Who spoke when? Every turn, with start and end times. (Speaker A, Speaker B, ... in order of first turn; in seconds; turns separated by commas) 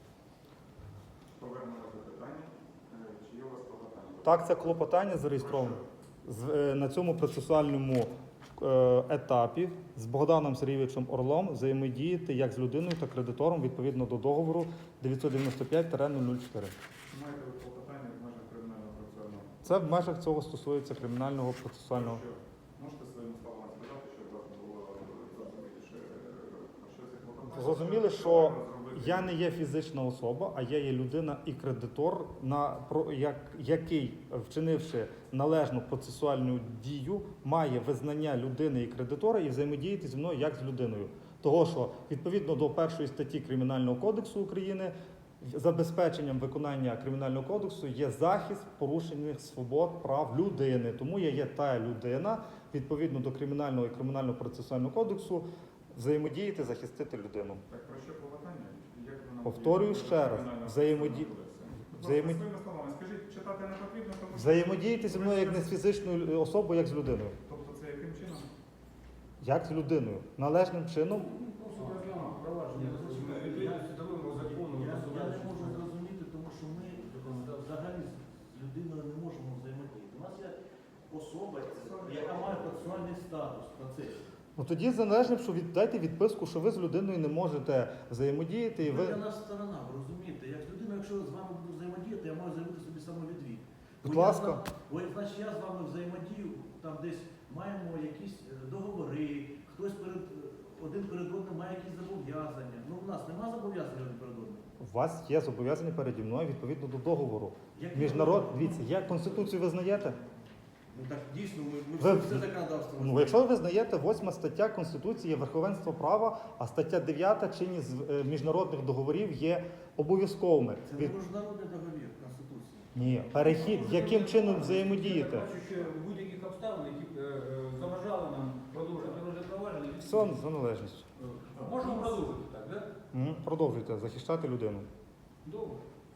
Speaker A: 1.4-4.8, Speaker B: 4.2-16.7, Speaker A: 5.3-5.8, Speaker A: 17.1-19.6, Speaker B: 19.6-22.2, Speaker A: 21.9-29.4, Speaker B: 27.4-57.6, Speaker A: 57.7-65.7, Speaker B: 59.4-61.3, Speaker B: 61.9-62.4, Speaker B: 64.3-67.4, Speaker A: 67.5-68.5, Speaker B: 69.4-71.3, Speaker C: 71.2-75.8, Speaker D: 72.7-80.5, Speaker D: 81.1-84.2, Speaker A: 81.7-83.1, Speaker B: 84.6-89.2, Speaker D: 88.8-104.6, Speaker B: 94.0-94.6, Speaker B: 104.8-110.2, Speaker D: 107.7-109.5, Speaker D: 110.9-113.5, Speaker B: 112.0-112.5, Speaker B: 113.0-121.2, Speaker D: 120.8-122.9, Speaker B: 122.9-125.5, Speaker C: 123.4-130.4, Speaker B: 130.0-131.1, Speaker C: 131.2-132.9, Speaker D: 131.6-132.1, Speaker B: 133.1-134.9, Speaker C: 135.4-135.8